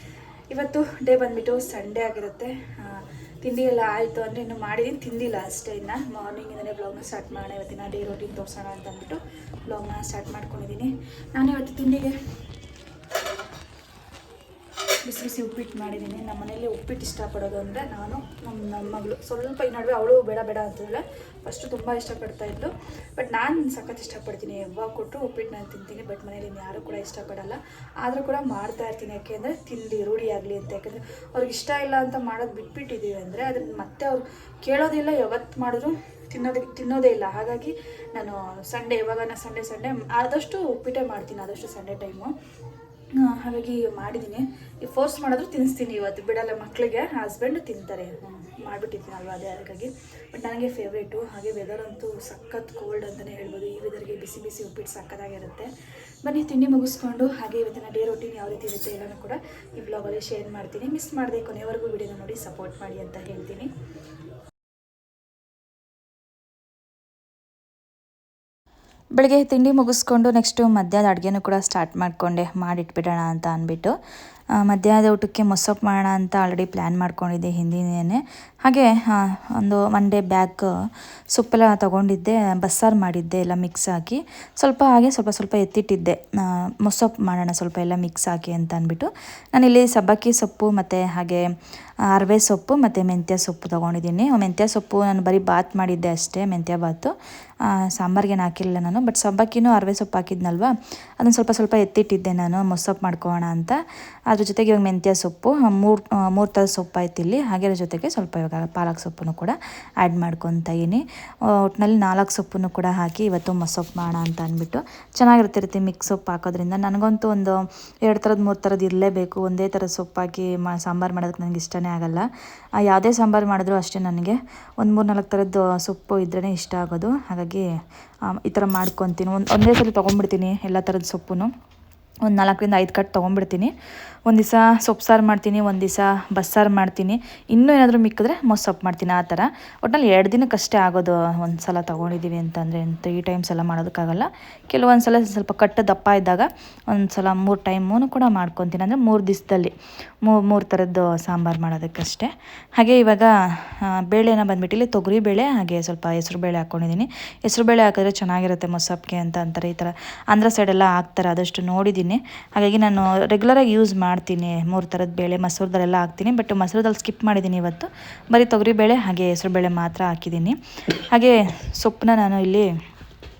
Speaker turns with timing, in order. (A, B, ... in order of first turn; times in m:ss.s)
0:00.5-0:12.2 A
0:15.0-0:42.3 A
0:43.2-0:55.7 A
0:56.2-1:03.7 A
1:09.2-1:14.0 A
1:14.6-1:20.7 A
1:21.3-1:31.5 A
1:32.1-1:43.8 A
1:44.3-2:02.3 A
2:02.8-2:07.6 A
2:08.3-2:11.5 A
2:12.2-2:13.7 A
2:14.3-2:52.7 A